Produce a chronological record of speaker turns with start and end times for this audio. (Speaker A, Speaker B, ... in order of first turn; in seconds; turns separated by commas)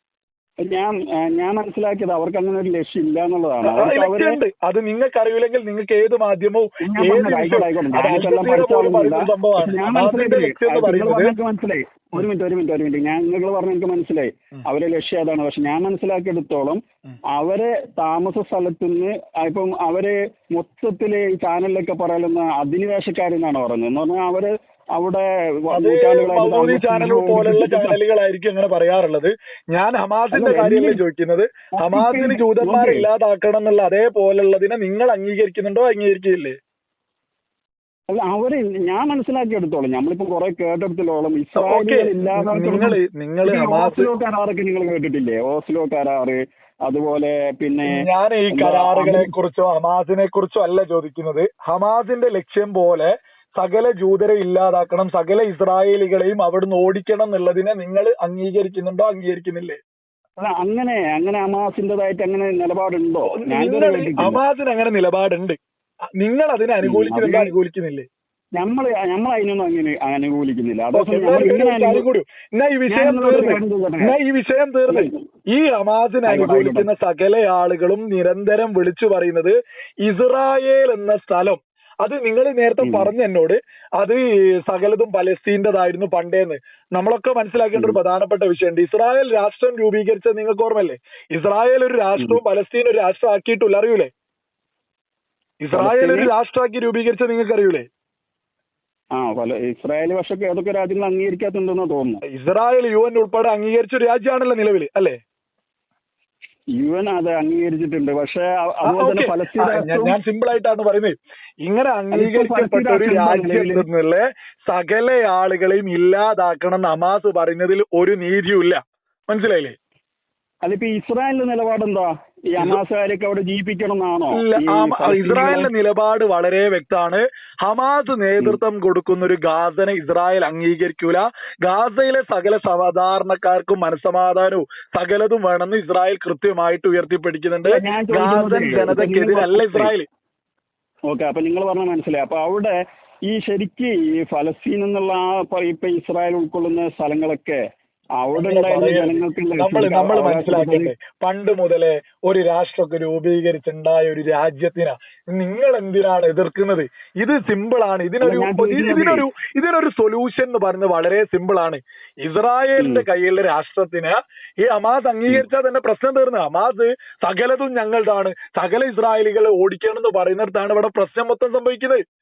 Speaker A: 0.6-4.4, Speaker B: 3.7-11.3, Speaker A: 6.8-28.0, Speaker B: 25.7-36.6, Speaker A: 30.3-31.0, Speaker A: 31.8-33.1, Speaker A: 38.1-49.3, Speaker B: 41.6-44.1, Speaker B: 47.9-59.8, Speaker A: 60.4-64.4, Speaker B: 63.3-65.6, Speaker B: 66.2-68.1, Speaker A: 66.8-67.5, Speaker A: 68.6-72.0, Speaker B: 70.9-94.1, Speaker A: 72.9-74.2, Speaker A: 74.9-75.2, Speaker A: 76.3-76.9, Speaker A: 82.8-83.1, Speaker B: 95.6-97.9, Speaker A: 95.7-96.3, Speaker A: 99.2-102.2, Speaker B: 102.3-105.2, Speaker A: 106.8-110.2, Speaker B: 108.9-119.8, Speaker A: 112.1-113.8, Speaker A: 120.6-125.7, Speaker B: 124.3-140.1, Speaker A: 137.7-139.9, Speaker A: 141.1-147.6, Speaker A: 148.2-150.9, Speaker B: 148.4-172.0, Speaker A: 158.2-159.3, Speaker A: 162.8-163.1